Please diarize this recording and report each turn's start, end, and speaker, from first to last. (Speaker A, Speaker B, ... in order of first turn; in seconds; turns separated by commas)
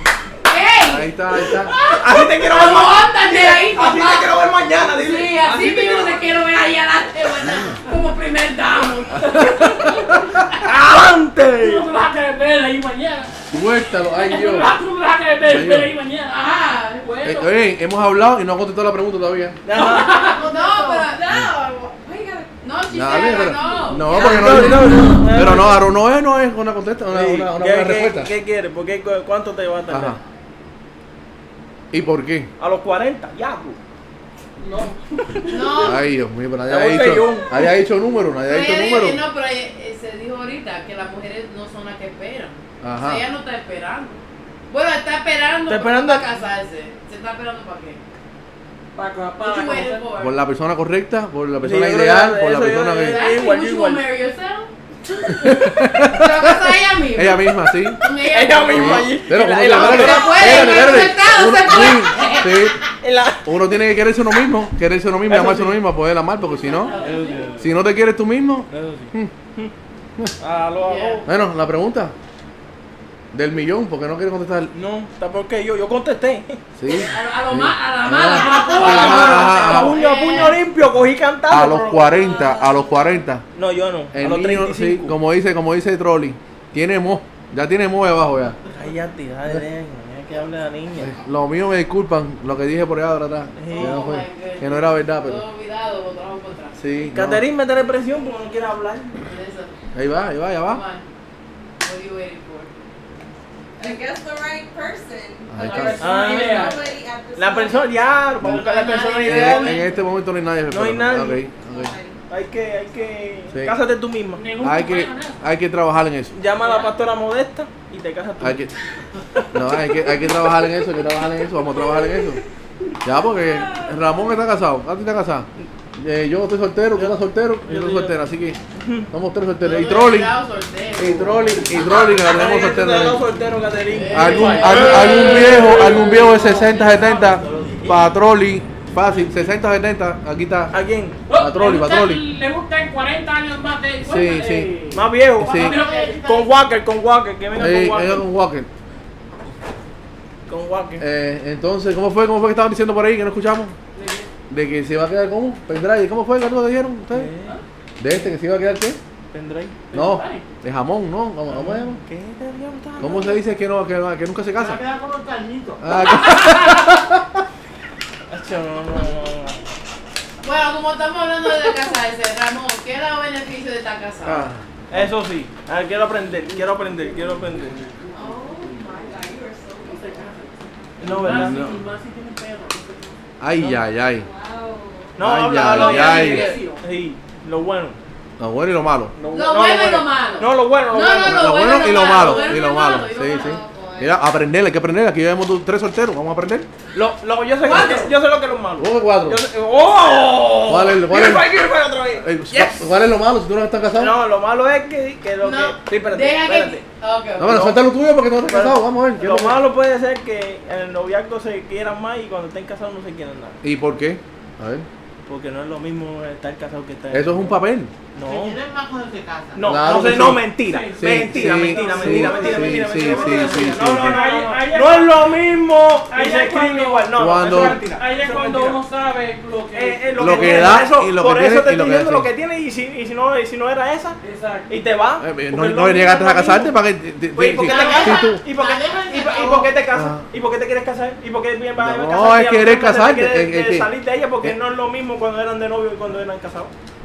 Speaker A: 0.4-4.3, Speaker B: 0.8-1.8, Speaker C: 1.9-6.2, Speaker A: 5.0-9.6, Speaker B: 7.5-7.8, Speaker B: 9.2-10.3, Speaker D: 9.4-10.2, Speaker C: 10.6-11.9, Speaker D: 11.6-13.3, Speaker B: 13.5-14.8, Speaker D: 14.2-16.4, Speaker B: 15.4-15.9, Speaker A: 16.3-17.1, Speaker D: 17.0-17.5, Speaker B: 17.2-19.6, Speaker C: 19.6-20.2, Speaker D: 19.7-20.4, Speaker A: 19.8-21.6, Speaker E: 20.0-21.1, Speaker F: 21.2-22.5, Speaker A: 22.6-25.5, Speaker B: 22.9-28.3, Speaker F: 23.4-24.0, Speaker C: 24.1-25.9, Speaker C: 27.1-30.2, Speaker B: 29.9-30.2, Speaker B: 31.9-32.5, Speaker C: 32.6-33.8, Speaker D: 34.6-35.0, Speaker A: 35.5-36.0, Speaker B: 35.8-39.2, Speaker C: 36.7-37.6, Speaker A: 38.5-48.0, Speaker B: 42.8-43.2, Speaker C: 45.7-46.3, Speaker D: 49.0-50.0, Speaker A: 49.4-50.4, Speaker B: 50.2-53.2, Speaker C: 51.6-54.0, Speaker A: 53.0-54.7, Speaker A: 55.2-62.8, Speaker B: 55.4-58.0, Speaker C: 58.3-60.9, Speaker B: 58.7-62.8, Speaker C: 63.0-63.6, Speaker B: 63.5-67.0, Speaker C: 65.2-65.8, Speaker A: 66.5-67.4, Speaker D: 66.9-67.4, Speaker C: 66.9-67.7, Speaker B: 67.6-69.3, Speaker C: 68.7-69.7, Speaker C: 70.4-71.3, Speaker A: 70.8-71.3, Speaker B: 71.2-72.2, Speaker B: 73.3-74.7, Speaker C: 74.7-76.6, Speaker B: 76.8-80.0, Speaker A: 76.9-80.6, Speaker D: 78.3-79.4, Speaker C: 78.7-82.1, Speaker B: 81.5-83.4, Speaker F: 82.0-82.8, Speaker C: 83.5-85.2, Speaker B: 84.1-88.6, Speaker C: 88.7-91.2, Speaker B: 91.0-95.4, Speaker C: 93.6-94.1, Speaker A: 93.7-96.8, Speaker B: 96.8-97.5, Speaker C: 97.1-99.2, Speaker A: 99.2-99.7, Speaker B: 99.9-100.8, Speaker A: 100.6-101.0, Speaker A: 101.8-102.7, Speaker F: 103.8-108.0, Speaker B: 105.5-106.0, Speaker D: 105.6-106.8, Speaker C: 106.0-106.8, Speaker C: 107.4-109.8, Speaker A: 108.4-109.9, Speaker B: 109.2-111.9, Speaker C: 110.7-111.4, Speaker F: 111.5-112.2, Speaker C: 112.3-114.4, Speaker D: 114.4-115.4, Speaker B: 114.6-116.3, Speaker C: 116.3-118.7, Speaker B: 118.4-118.7, Speaker C: 119.3-120.4, Speaker B: 119.5-122.4, Speaker B: 123.0-128.6, Speaker F: 123.4-124.0, Speaker C: 126.9-128.2, Speaker C: 128.8-129.1, Speaker B: 129.1-130.4, Speaker A: 129.6-131.7, Speaker B: 131.0-133.3, Speaker C: 131.8-136.0, Speaker A: 133.9-135.8, Speaker B: 134.1-140.7, Speaker D: 134.2-137.2, Speaker E: 136.5-137.9, Speaker C: 140.7-141.2, Speaker D: 141.3-146.2, Speaker B: 141.3-142.2, Speaker B: 144.0-144.7, Speaker C: 144.9-148.2, Speaker B: 145.4-145.8, Speaker E: 145.6-146.5, Speaker B: 147.6-148.7, Speaker C: 150.5-151.1, Speaker B: 151.0-153.8, Speaker D: 153.9-154.3, Speaker B: 154.5-157.3, Speaker C: 157.1-157.6, Speaker B: 158.0-159.0, Speaker C: 159.3-159.9, Speaker D: 159.9-160.5, Speaker B: 159.9-162.0, Speaker C: 161.5-163.4, Speaker B: 163.0-164.8, Speaker E: 164.6-165.9, Speaker B: 165.8-167.4, Speaker D: 166.1-166.7, Speaker C: 168.3-169.6, Speaker A: 170.4-174.5, Speaker B: 174.2-175.1, Speaker C: 174.9-177.8, Speaker F: 178.1-180.3, Speaker D: 179.8-183.2, Speaker C: 181.0-181.8, Speaker B: 181.0-181.8, Speaker B: 183.4-184.3, Speaker F: 184.1-185.2, Speaker C: 185.2-188.0, Speaker B: 185.2-186.6, Speaker D: 185.5-186.8, Speaker B: 188.4-189.2, Speaker C: 189.2-192.5, Speaker A: 189.3-194.2, Speaker B: 191.2-196.7, Speaker C: 196.9-202.9, Speaker A: 197.6-198.1, Speaker B: 198.8-199.4, Speaker B: 200.7-201.5, Speaker B: 202.2-204.2, Speaker C: 203.9-206.8, Speaker A: 205.4-207.7, Speaker B: 207.4-209.6, Speaker C: 207.4-207.8, Speaker C: 208.5-213.6, Speaker B: 213.6-214.9, Speaker C: 215.3-217.6, Speaker B: 217.1-217.9, Speaker C: 218.1-218.6, Speaker E: 218.2-219.9, Speaker C: 219.6-228.8, Speaker B: 219.7-224.2, Speaker D: 219.9-225.3, Speaker E: 221.8-223.8, Speaker D: 226.1-230.9, Speaker B: 227.2-227.8, Speaker C: 229.7-234.2, Speaker B: 230.2-232.3, Speaker D: 234.2-234.7, Speaker C: 234.7-236.7, Speaker B: 235.2-238.4, Speaker C: 237.3-246.7, Speaker E: 237.6-239.8, Speaker B: 239.9-240.3, Speaker B: 241.8-244.6